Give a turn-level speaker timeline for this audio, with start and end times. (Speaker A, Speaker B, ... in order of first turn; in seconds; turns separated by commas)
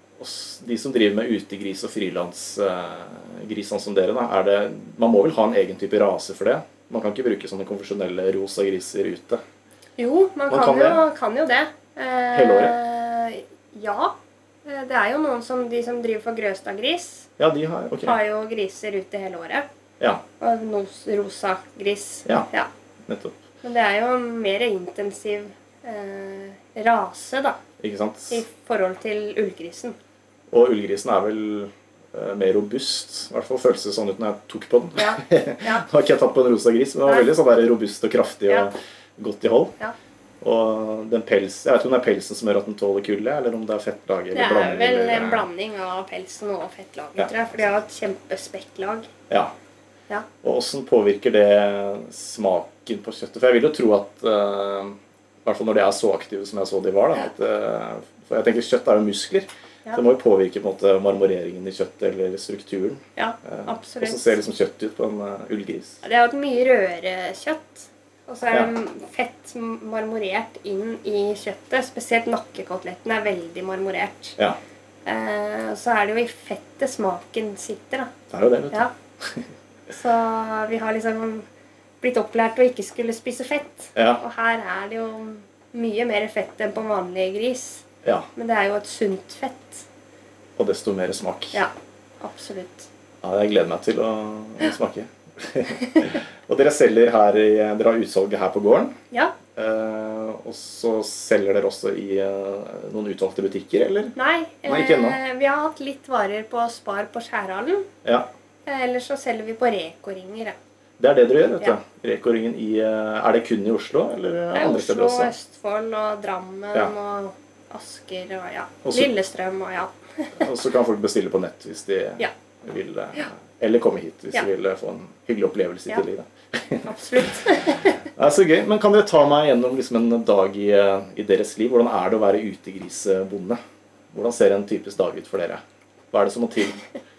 Speaker A: 0.2-9.4, Speaker B: 10.0-14.1, Speaker A: 10.5-11.0, Speaker A: 12.3-12.8, Speaker B: 14.7-17.3, Speaker A: 17.4-18.2, Speaker B: 18.0-19.7, Speaker B: 20.4-22.7, Speaker A: 23.1-23.4, Speaker B: 23.6-27.6, Speaker A: 27.8-28.4, Speaker B: 28.3-29.9, Speaker A: 30.5-39.8, Speaker B: 35.0-35.9, Speaker B: 37.1-37.3, Speaker A: 40.4-45.5, Speaker B: 44.3-49.1, Speaker A: 50.4-66.0, Speaker B: 63.2-64.4, Speaker B: 66.0-74.4, Speaker B: 75.0-78.1, Speaker A: 78.3-79.5, Speaker B: 79.9-81.5, Speaker B: 82.0-87.8, Speaker A: 84.0-84.2, Speaker A: 88.0-88.3, Speaker B: 88.4-89.8, Speaker A: 90.6-91.7, Speaker B: 91.5-92.9, Speaker A: 93.2-99.0, Speaker A: 99.6-104.1, Speaker B: 104.2-107.9, Speaker A: 104.7-105.2, Speaker B: 108.7-110.6, Speaker A: 111.0-115.3, Speaker B: 114.5-120.5, Speaker A: 118.8-119.1, Speaker A: 120.4-127.3, Speaker B: 126.8-128.0, Speaker A: 128.2-133.6, Speaker A: 134.1-136.8